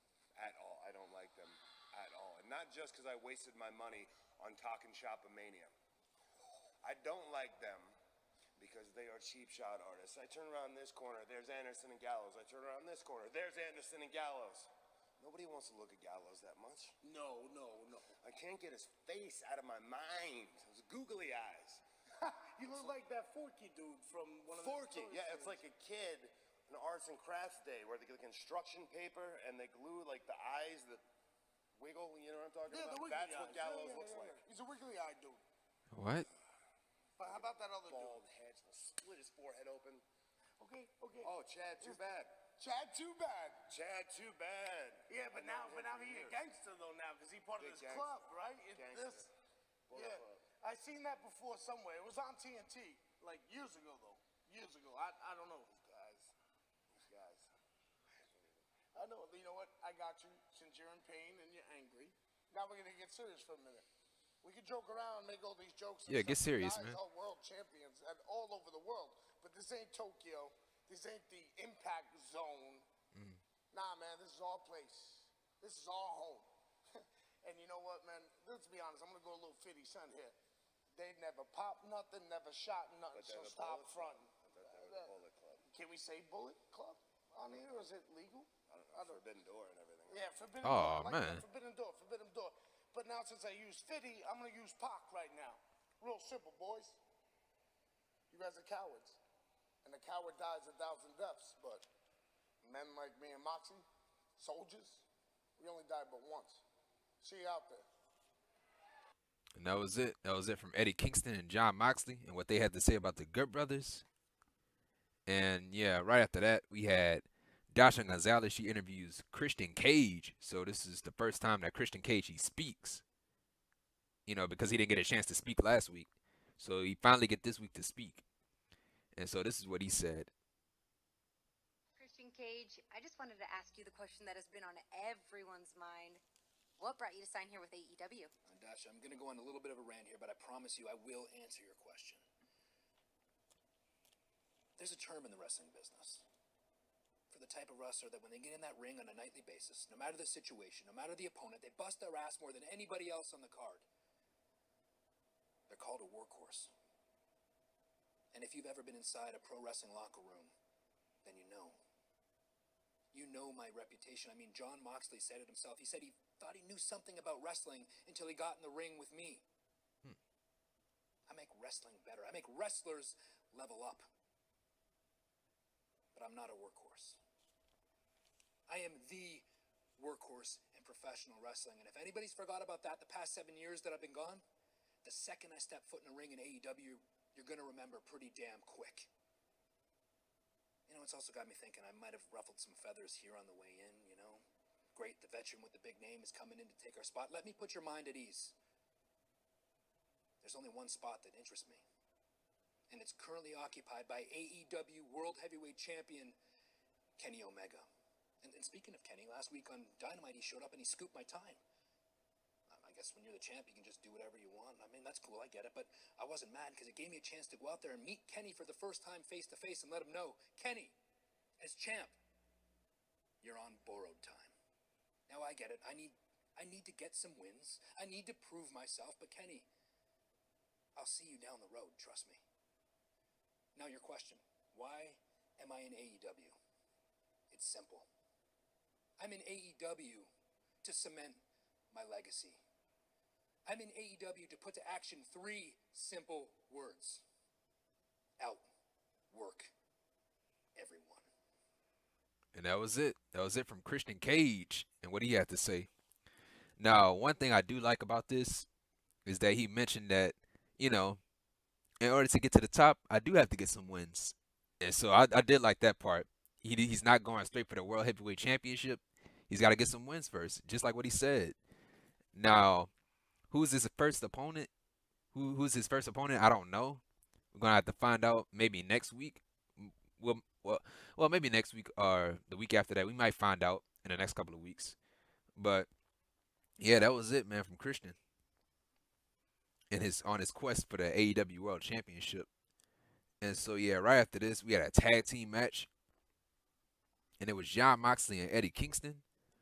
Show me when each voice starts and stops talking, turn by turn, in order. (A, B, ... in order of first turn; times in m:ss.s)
0:00.4-0:05.8 A
0:06.8-0:08.0 A
0:08.6-0:17.0 A
0:17.0-0:18.2 B
0:18.2-0:21.8 A
0:22.2-0:25.6 B
0:24.6-0:31.0 A
0:31.8-0:34.4 A
0:32.7-0:35.4 B
0:35.9-0:36.3 C
0:37.2-0:38.2 B
0:37.2-0:40.0 A
0:40.6-0:42.0 B
0:41.2-0:42.4 A
0:42.6-0:43.7 B
0:43.7-0:46.4 A
0:45.1-0:49.3 B
0:47.6-0:49.3 A
0:49.9-0:50.4 A
0:49.9-0:56.3 B
0:57.0-0:57.5 A
0:58.2-0:58.7 A
0:58.9-1:03.9 B
1:04.4-1:12.9 B
1:06.1-1:07.0 C
1:13.1-1:13.4 C
1:13.7-1:20.4 B
1:21.0-1:25.1 B
1:23.1-1:25.7 A
1:25.7-1:29.2 B
1:28.7-1:30.2 A
1:30.1-1:37.0 B
1:30.6-1:31.4 C
1:38.3-1:39.2 B
1:39.8-1:41.9 B
1:42.6-1:43.8 B
1:44.4-1:45.0 B
1:45.6-1:46.6 B
1:47.2-1:47.9 B
1:49.6-1:54.0 C
1:55.3-2:03.0 C
2:04.3-2:06.1 C
2:06.6-2:08.2 C
2:09.2-2:10.3 C
2:12.0-2:16.2 D
2:16.8-2:18.3 D
2:18.5-2:22.2 E
2:24.8-2:26.2 E
2:27.3-2:33.8 E
2:35.7-2:36.7 E
2:38.3-2:40.5 E
2:41.2-2:41.8 E
2:43.1-2:49.4 E
2:51.3-2:54.1 E
2:56.2-2:57.2 E
2:58.7-3:04.4 E
3:05.0-3:09.1 E
3:10.9-3:14.4 E
3:15.0-3:18.6 E
3:20.4-3:21.8 E
3:22.9-3:26.4 E
3:27.2-3:27.9 E
3:28.4-3:31.6 E
3:32.7-3:41.0 E
3:41.6-3:42.2 E
3:43.4-3:44.5 E
3:45.3-3:49.7 E
3:51.0-3:52.4 E
3:53.8-3:56.6 E
3:57.5-3:58.1 E
3:59.2-4:00.3 E
4:00.8-4:02.6 E
4:03.7-4:07.2 E
4:08.4-4:08.7 E
4:09.3-4:09.7 E
4:10.8-4:11.3 E
4:12.5-4:15.9 C
4:16.8-4:18.7 C
4:19.2-4:21.2 C
4:22.0-4:31.6 C
4:32.3-4:32.9 C
4:33.5-4:34.7 C
4:35.3-4:37.0 C
4:37.5-4:45.0 C
4:45.6-4:45.9 C
4:46.8-4:48.2 C
4:49.9-4:52.5 C
4:53.4-4:55.9 C
4:57.4-4:59.2 C